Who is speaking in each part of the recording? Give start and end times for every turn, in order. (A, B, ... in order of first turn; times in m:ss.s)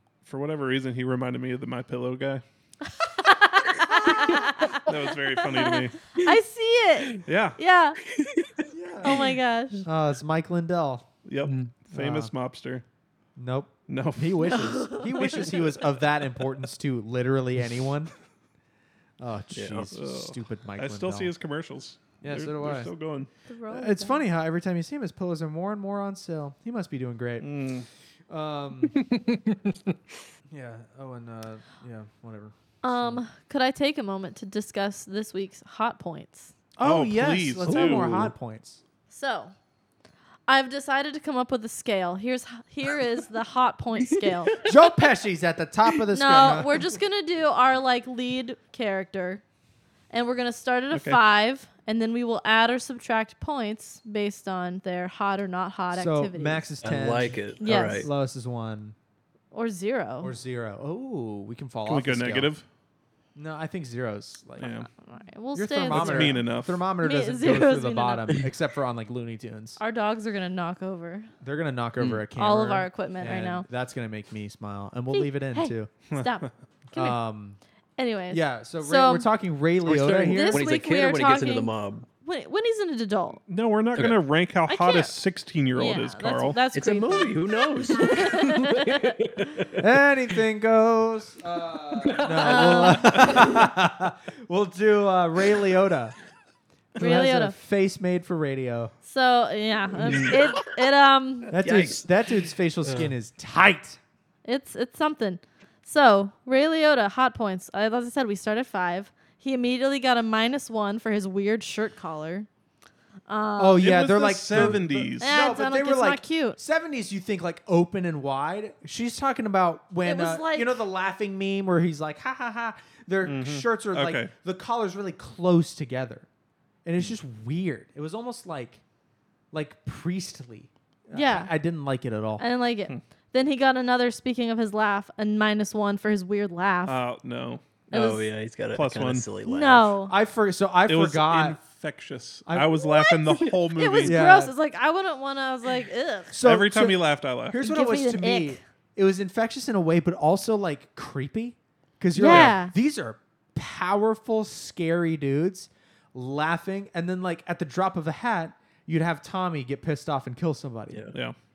0:00.2-0:02.4 A
0:03.0-0:08.0 B
0:04.1-0:04.4 C
0:04.6-0:06.0 A
0:07.2-0:07.6 A
0:08.1-0:08.7 C
0:08.7-0:09.3 D
0:09.0-0:09.8 B
0:09.8-0:11.1 D
0:11.2-0:12.8 A
0:11.4-0:11.7 C
0:11.9-0:12.3 D
0:13.4-0:18.1 D
0:13.9-0:15.6 A
0:14.5-0:15.4 B
0:19.2-0:21.3 D
0:19.5-0:19.9 C
0:19.9-0:23.3 A
0:22.2-0:22.9 D
0:23.5-0:24.2 B
0:23.7-0:27.5 D
0:27.4-0:27.9 A
0:28.3-0:29.0 D
0:28.9-0:29.9 C
0:30.5-0:33.2 D
0:32.8-0:36.5 B
0:36.8-0:38.8 D
0:36.8-0:38.2 A
0:37.6-0:38.3 C
0:39.1-0:39.5 B
0:40.5-0:44.6 B
0:44.1-0:44.7 C
0:44.6-0:46.8 D
0:46.1-0:49.4 B
0:50.1-0:56.6 B
0:50.9-0:51.2 A
0:55.9-0:58.9 D
0:56.8-0:58.1 C
0:57.6-0:58.1 B
0:59.5-1:00.3 B
1:00.2-1:02.5 D
1:01.8-1:02.6 A
1:03.4-1:04.7 D
1:04.6-1:04.9 A
1:04.6-1:06.4 B
1:05.5-1:09.8 D
1:05.9-1:06.8 A
1:07.0-1:08.4 B
1:09.8-1:11.3 B
1:11.4-1:15.9 D
1:12.4-1:13.6 B
1:15.1-1:17.2 B
1:16.1-1:16.4 A
1:16.9-1:17.6 D
1:18.0-1:19.3 B
1:18.3-1:20.7 D
1:19.8-1:22.0 C
1:20.3-1:21.7 B
1:22.2-1:23.4 B
1:23.5-1:26.6 A
1:24.7-1:25.2 B
1:25.7-1:29.2 B
1:26.7-1:29.8 C
1:29.8-1:36.2 D
1:32.0-1:33.2 C
1:32.4-1:33.5 B
1:37.0-1:38.9 D
1:37.0-1:37.5 B
1:39.0-1:41.6 B
1:40.0-1:40.8 C
1:41.5-1:42.1 C
1:41.5-1:44.0 D
1:42.8-1:43.1 C
1:44.4-1:52.5 B
1:53.3-1:53.9 B
1:53.6-2:06.3 D
1:53.8-1:55.3 A
1:55.2-1:56.6 B
2:00.0-2:00.7 B
2:03.2-2:04.3 A
2:06.8-2:08.8 D
2:09.5-2:12.4 D
2:11.1-2:11.5 B
2:12.4-2:17.0 B
2:16.8-2:17.8 A
2:17.9-2:18.3 B
2:17.9-2:19.9 C
2:18.7-2:19.2 A
2:19.4-2:20.1 B
2:20.1-2:21.6 D
2:20.9-2:24.2 A
2:22.5-2:22.8 D
2:22.8-2:26.3 B
2:24.0-2:24.5 D
2:26.3-2:41.1 D
2:26.4-2:27.6 A
2:27.6-2:28.6 B
2:32.1-2:32.7 B
2:32.2-2:32.5 A